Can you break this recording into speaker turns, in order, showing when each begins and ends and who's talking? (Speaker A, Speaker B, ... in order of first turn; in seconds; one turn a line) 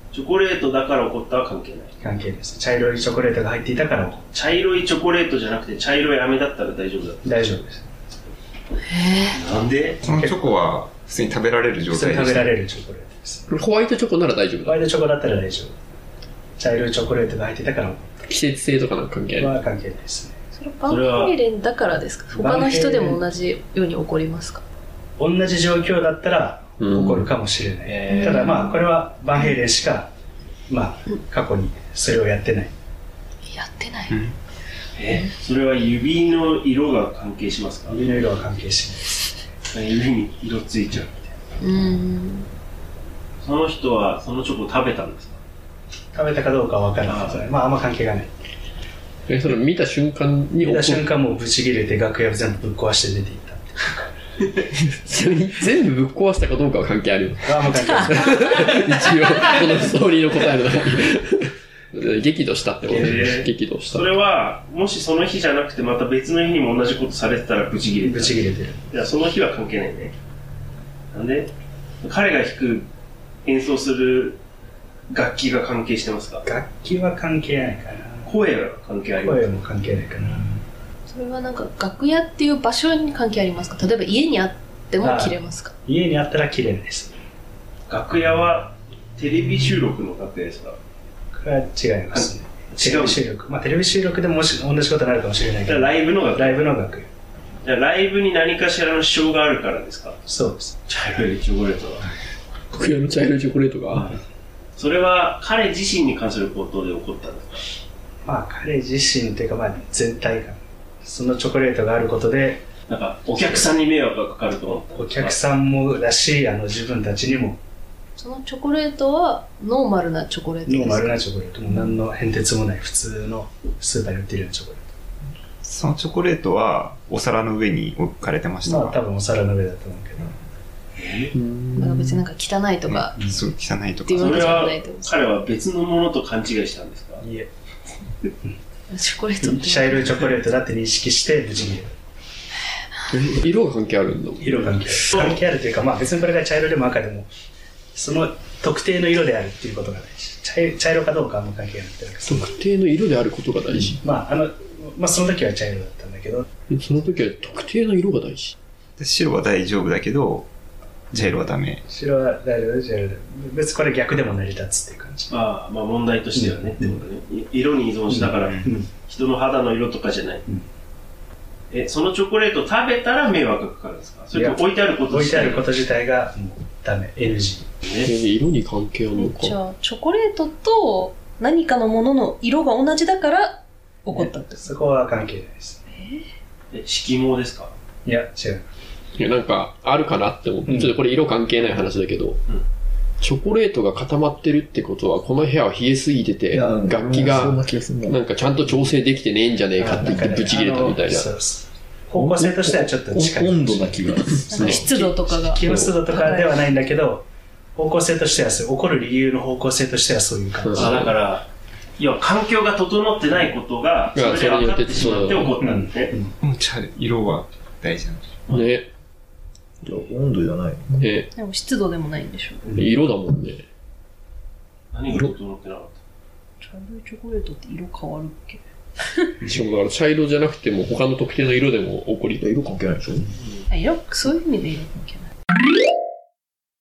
Speaker A: 0.1-1.9
Speaker B: 2.0-4.3
Speaker A: 4.3-7.2
Speaker B: 7.2-7.9
Speaker C: 8.9-9.4
Speaker A: 9.3-10.0
Speaker D: 10.0-12.6
Speaker B: 10.1-10.6
Speaker B: 11.9-13.4
Speaker E: 13.5-14.8
Speaker B: 14.6-15.7
Speaker B: 16.6-18.3
Speaker E: 18.3-19.6
Speaker B: 19.4-20.4
Speaker C: 20.5-24.6
Speaker A: 20.9-21.4
Speaker B: 22.3-23.2
Speaker B: 25.2-30.1
Speaker E: 26.8-27.3
Speaker A: 27.9-28.5
Speaker C: 28.1-28.8
Speaker B: 30.7-32.7
Speaker C: 33.5-34.2
Speaker A: 35.0-38.0
Speaker B: 37.9-39.2
Speaker A: 39.7-41.4
Speaker C: 41.6-42.5
Speaker A: 43.4-45.4
Speaker B: 46.1-48.3
Speaker A: 47.1-47.5
Speaker E: 49.3-51.0
Speaker B: 50.6-54.1
Speaker E: 55.0-64.1
Speaker B: 57.5-58.4
Speaker B: 62.9-63.3
Speaker A: 62.9-70.1
Speaker B: 68.0-68.8
Speaker A: 71.1-71.5
Speaker A: 72.0-72.9
Speaker A: 73.5-74.4
Speaker A: 75.1-76.5
Speaker B: 76.5-78.3
Speaker A: 78.2-79.6
Speaker B: 79.2-80.6
Speaker C: 81.1-85.7
Speaker B: 85.0-87.2
Speaker A: 87.9-90.8
Speaker B: 91.3-97.1
Speaker A: 92.1-93.2
Speaker A: 95.7-96.7
Speaker A: 97.6-100.2
Speaker B: 100.2-100.8
Speaker A: 100.9-102.1
Speaker E: 102.7-104.2
Speaker A: 104.8-107.6
Speaker B: 108.2-112.6
Speaker A: 112.9-115.4
Speaker B: 115.0-117.6
Speaker C: 118.2-121.2
Speaker B: 120.7-124.8
Speaker D: 125.6-129.0
Speaker B: 128.7-130.4
Speaker A: 131.0-131.3
Speaker E: 131.3-132.2
Speaker C: 131.7-133.2
Speaker D: 132.9-134.8
Speaker C: 134.1-135.2
Speaker A: 134.2-137.2
Speaker B: 137.2-137.5
Speaker C: 138.9-140.2
Speaker B: 139.4-141.9
Speaker E: 143.1-144.8
Speaker B: 144.4-147.3
Speaker B: 147.9-152.5
Speaker E: 152.2-154.0
Speaker B: 154.0-156.5
Speaker E: 156.7-158.6
Speaker D: 159.0-160.5
Speaker D: 161.1-161.8
Speaker B: 161.1-165.4
Speaker A: 165.3-170.4
Speaker B: 166.3-167.0
Speaker B: 168.1-168.9
Speaker A: 171.7-175.7
Speaker B: 174.3-177.7
Speaker A: 177.8-178.1
Speaker E: 178.0-179.6
Speaker C: 179.1-184.7
Speaker B: 184.1-185.8
Speaker C: 185.9-186.2
Speaker A: 186.7-187.7
Speaker B: 188.1-188.7
Speaker E: 189.2-192.4
Speaker B: 190.7-191.0
Speaker E: 193.2-201.3
Speaker F: 196.5-198.4
Speaker B: 199.8-211.1
Speaker F: 202.2-204.9
Speaker C: 204.5-206.5
Speaker E: 205.7-205.9
Speaker E: 210.7-211.1
Speaker A: 210.7-211.5
Speaker A: 212.0-216.1
Speaker E: 214.1-215.6
Speaker B: 215.6-216.3
Speaker D: 216.4-218.4
Speaker E: 218.5-218.9
Speaker F: 219.8-221.1
Speaker E: 221.0-221.3
Speaker C: 221.3-222.8
Speaker E: 222.7-223.7
Speaker A: 224.9-226.0
Speaker C: 226.6-229.4
Speaker E: 229.4-232.4
Speaker F: 232.4-233.3
Speaker C: 233.7-235.3